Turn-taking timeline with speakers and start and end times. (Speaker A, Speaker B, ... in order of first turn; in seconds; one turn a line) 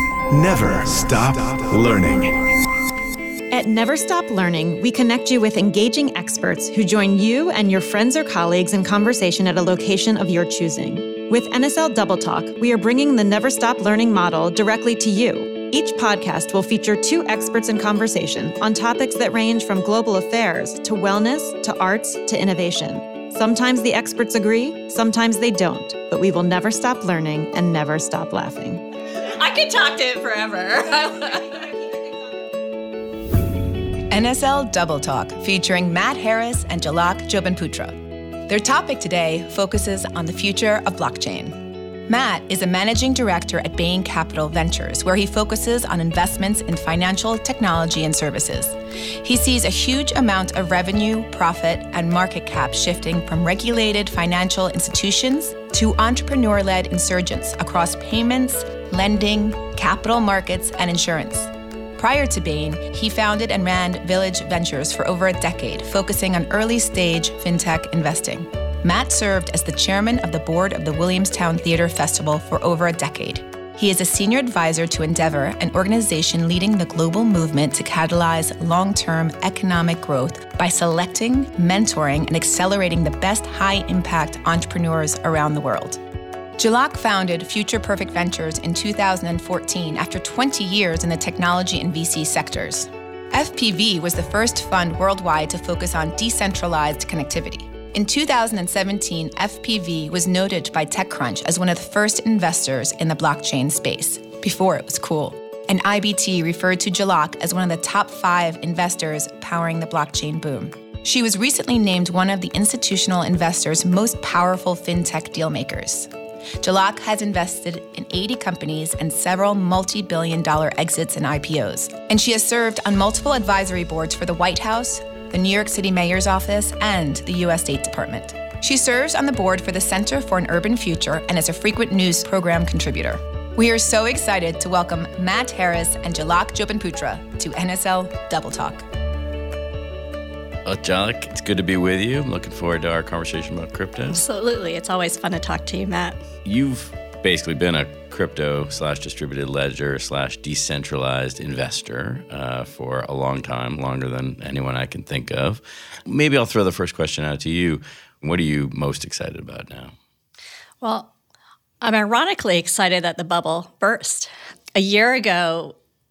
Speaker A: 0.3-2.7
Speaker B: 3.5-28.9
Speaker C: 29.2-31.9
Speaker D: 34.1-38.0
Speaker D: 38.5-86.0
Speaker D: 86.6-116.1
Speaker D: 116.6-138.9
Speaker E: 140.7-144.2
Speaker C: 144.1-146.2
Speaker E: 146.4-159.9
Speaker C: 160.8-161.1
Speaker C: 161.8-165.8